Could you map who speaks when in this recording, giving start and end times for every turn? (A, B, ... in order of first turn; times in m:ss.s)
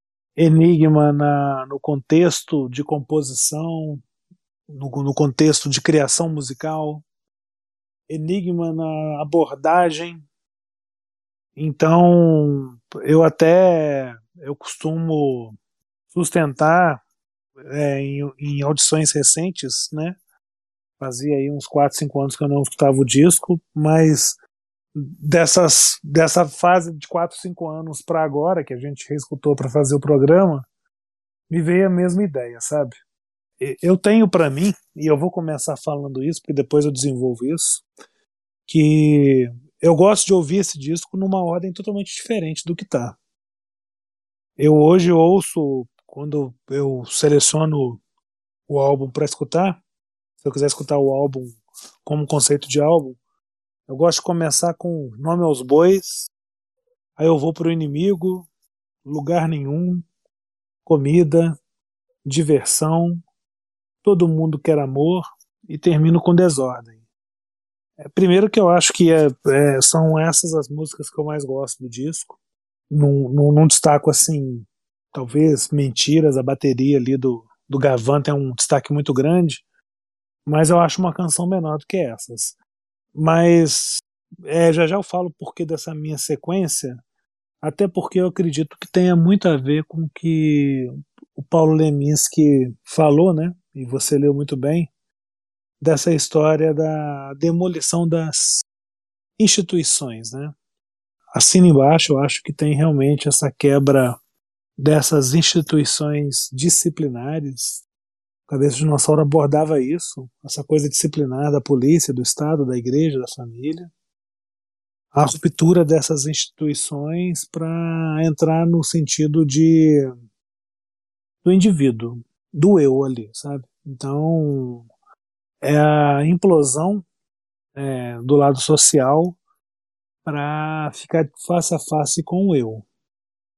0:00.4-0:04.0 A
0:04.7-0:07.0 A
0:08.1-0:10.2 A
0:11.6-0:15.6 A
0:16.1-0:17.0 A
0:17.7-0:20.2 A
0:21.0-0:24.4 A
0:25.0-0:30.6 A
0:31.5-0:33.0 A
0:33.6-0:37.8 A
0:38.7-0:43.2 A
0:44.6-0:48.0 A
0:48.7-0:49.8 A
0:50.4-0:53.2 A
0:53.9-0:56.3 A
0:57.2-0:58.5 A
0:59.0-1:00.1 A
1:00.9-1:01.6 A
1:02.2-1:03.2 A
1:04.0-1:07.0 A
1:08.0-1:12.4 A
1:12.9-1:19.6 A
1:20.5-1:22.6 A
1:23.2-1:27.0 A
1:27.6-1:34.9 A
1:35.8-1:38.7 A
1:39.4-1:40.5 A
1:41.3-1:44.2 A
1:44.8-1:47.8 A
1:48.5-1:53.9 A
1:55.1-2:00.1 A
2:01.4-2:04.9 A
2:05.6-2:07.0 A
2:07.8-2:09.4 A
2:10.3-2:12.9 A